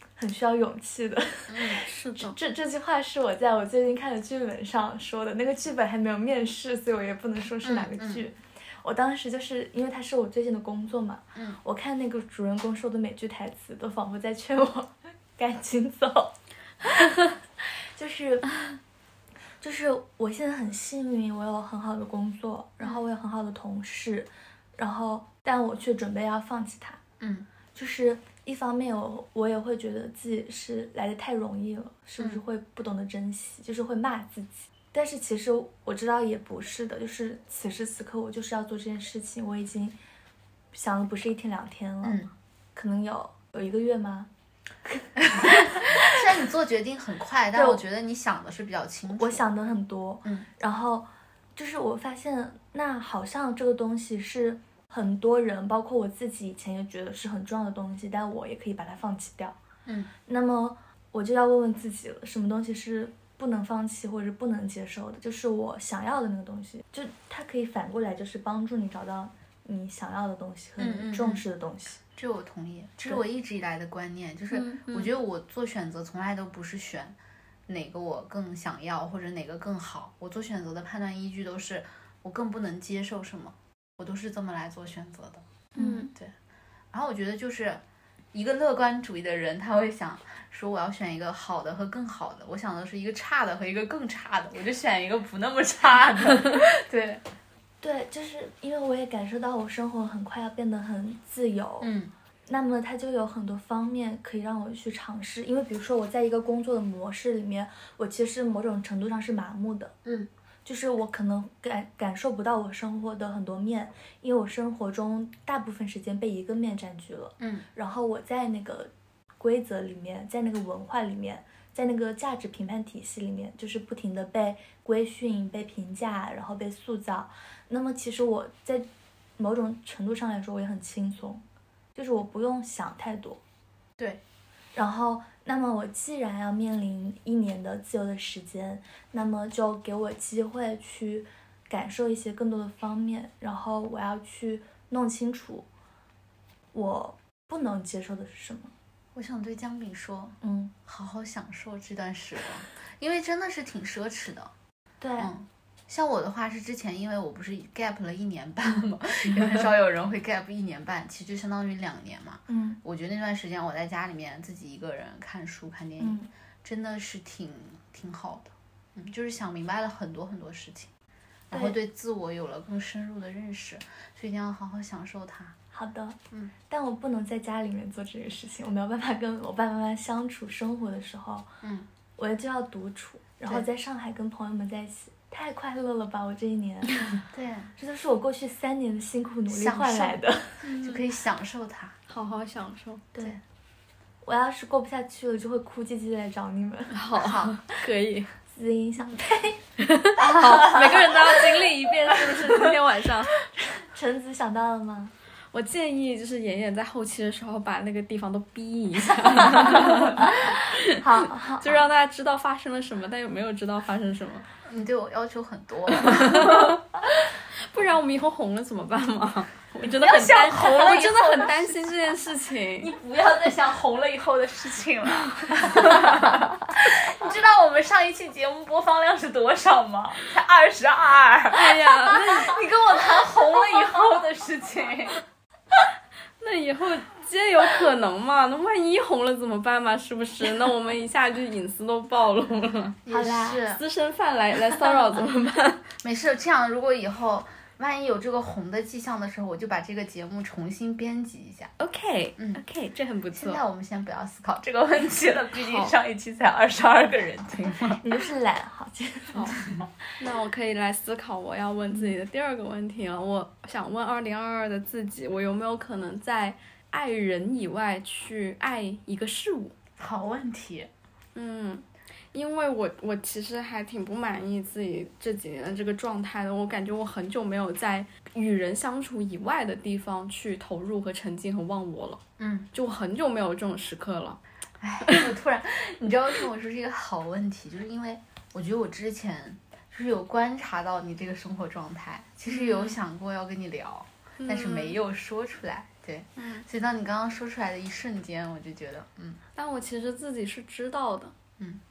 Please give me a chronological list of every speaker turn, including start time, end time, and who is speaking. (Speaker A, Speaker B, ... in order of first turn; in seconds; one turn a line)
Speaker A: 0.2-18.6
Speaker B: 1.5-1.8
Speaker C: 1.8-2.4
Speaker B: 7.6-8.2
Speaker A: 19.6-27.0
Speaker B: 27.2-27.5
Speaker A: 27.8-40.0
Speaker A: 40.7-44.3
Speaker B: 42.0-42.3
Speaker A: 44.9-46.2
Speaker B: 45.3-49.5
Speaker A: 47.5-47.8
Speaker A: 49.1-59.6
Speaker B: 59.9-60.1
Speaker A: 60.3-72.0
Speaker B: 70.8-71.4
Speaker B: 72.2-77.2
Speaker C: 74.5-75.1
Speaker B: 77.7-85.4
Speaker C: 85.8-86.1
Speaker A: 85.8-86.1
Speaker B: 86.9-87.8
Speaker B: 88.3-97.2
Speaker A: 97.8-101.9
Speaker B: 101.8-102.1
Speaker A: 102.5-109.9
Speaker A: 110.6-128.9
Speaker B: 117.4-117.7
Speaker A: 129.4-131.4
Speaker A: 131.9-133.4
Speaker A: 134.7-145.7
Speaker A: 146.7-148.7
Speaker B: 149.1-154.5
Speaker A: 150.4-150.7
Speaker A: 155.0-155.3
Speaker B: 155.2-170.9
Speaker A: 162.5-162.8
Speaker A: 166.0-166.3
Speaker B: 171.5-175.6
Speaker A: 171.5-171.8
Speaker A: 175.7-176.2
Speaker A: 176.7-181.5
Speaker A: 182.2-187.1
Speaker B: 187.3-187.7
Speaker A: 187.8-190.8
Speaker B: 189.5-190.2
Speaker C: 190.6-191.0
Speaker B: 190.8-192.0
Speaker C: 192.1-193.1
Speaker A: 194.2-196.9
Speaker C: 196.9-198.3
Speaker B: 197.2-197.7
Speaker A: 198.5-199.6
Speaker C: 199.8-203.3
Speaker B: 200.3-201.1
Speaker A: 203.7-205.1
Speaker C: 205.5-214.5
Speaker A: 210.0-211.9
Speaker B: 214.7-216.7
Speaker C: 216.0-216.8
Speaker C: 217.7-222.9
Speaker B: 219.9-222.0
Speaker B: 222.8-235.2
Speaker C: 225.7-226.1
Speaker C: 231.5-232.6
Speaker C: 236.4-243.0
Speaker B: 243.1-243.8
Speaker A: 243.1-243.6
Speaker C: 243.7-245.8
Speaker B: 246.0-251.7
Speaker C: 251.8-253.6
Speaker B: 253.3-258.0
Speaker C: 255.6-255.9
Speaker A: 258.0-259.6
Speaker B: 259.5-259.9
Speaker C: 260.2-269.8
Speaker B: 270.0-270.9
Speaker C: 271.4-282.2
Speaker B: 282.4-282.7
Speaker C: 282.7-284.4
Speaker B: 284.8-299.4
Speaker C: 292.5-293.0
Speaker C: 294.4-295.0
Speaker C: 296.4-296.6
Speaker C: 299.6-301.3